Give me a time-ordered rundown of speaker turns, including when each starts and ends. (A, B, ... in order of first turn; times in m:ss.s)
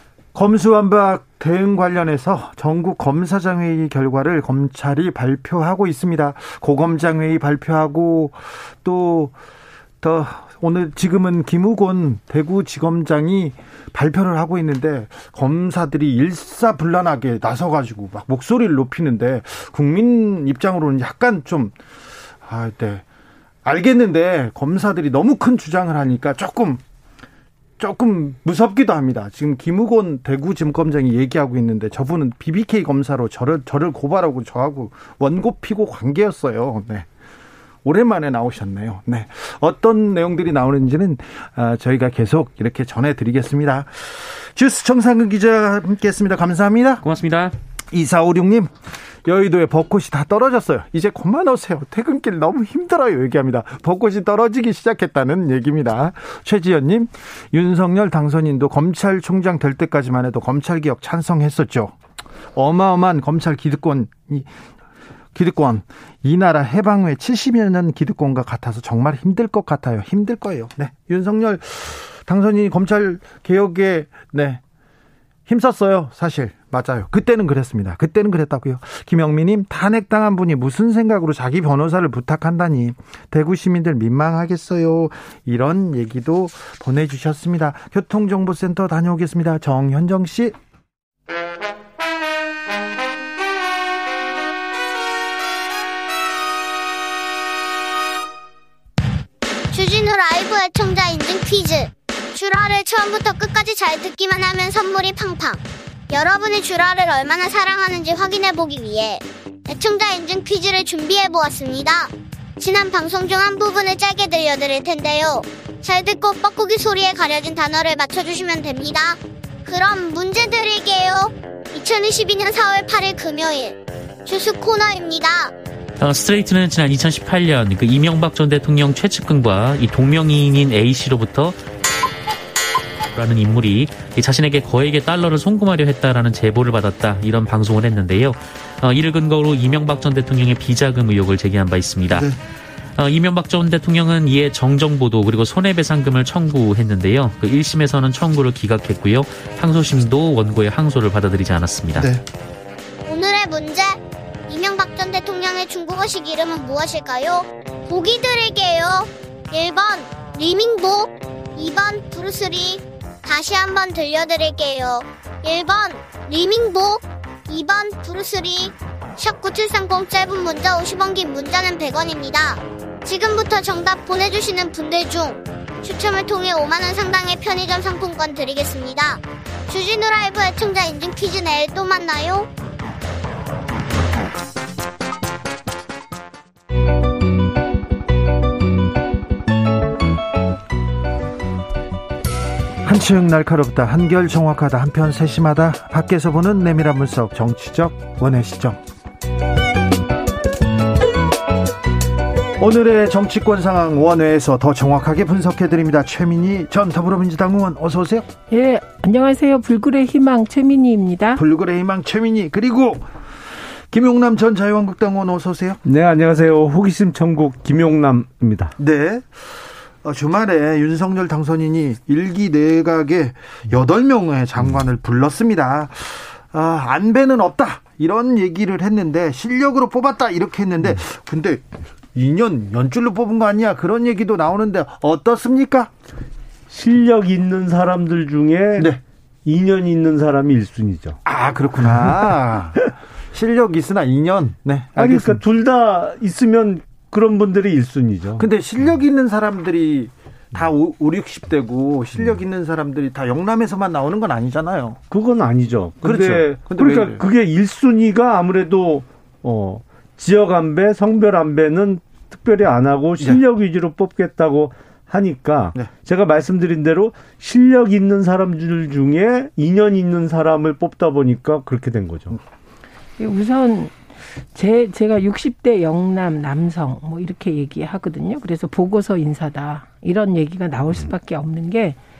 0:00.3-0:09.3 A
0:10.0-0:21.8 A
0:22.4-0:23.0 A
0:23.6-0:26.8 A
0:27.8-0:37.1 A
0:37.8-0:47.0 A
0:47.0-0:47.6 B
0:47.9-0:48.7 A
0:49.2-1:02.0 A
1:02.6-1:04.5 A
1:05.4-1:14.6 A
1:15.5-1:30.6 A
1:39.7-2:05.5 C
2:06.0-2:11.6 B
2:13.1-2:22.3 B
2:22.1-2:22.4 A
2:23.0-2:32.1 B
2:32.0-2:32.2 A
2:33.0-3:02.5 C
3:12.8-3:18.8 A
3:22.6-3:28.3 A
3:28.5-3:31.4 D
3:31.4-3:35.8 A
3:35.8-3:38.7 E
3:38.8-3:55.9 A
3:56.7-3:58.9 E
3:59.4-4:01.2 E
4:01.2-4:05.4 A
4:05.0-4:08.4 E
4:08.4-4:15.0 A
4:15.1-4:32.4 E
4:16.0-4:17.2 A
4:33.2-4:34.0 D
4:34.5-4:42.0 D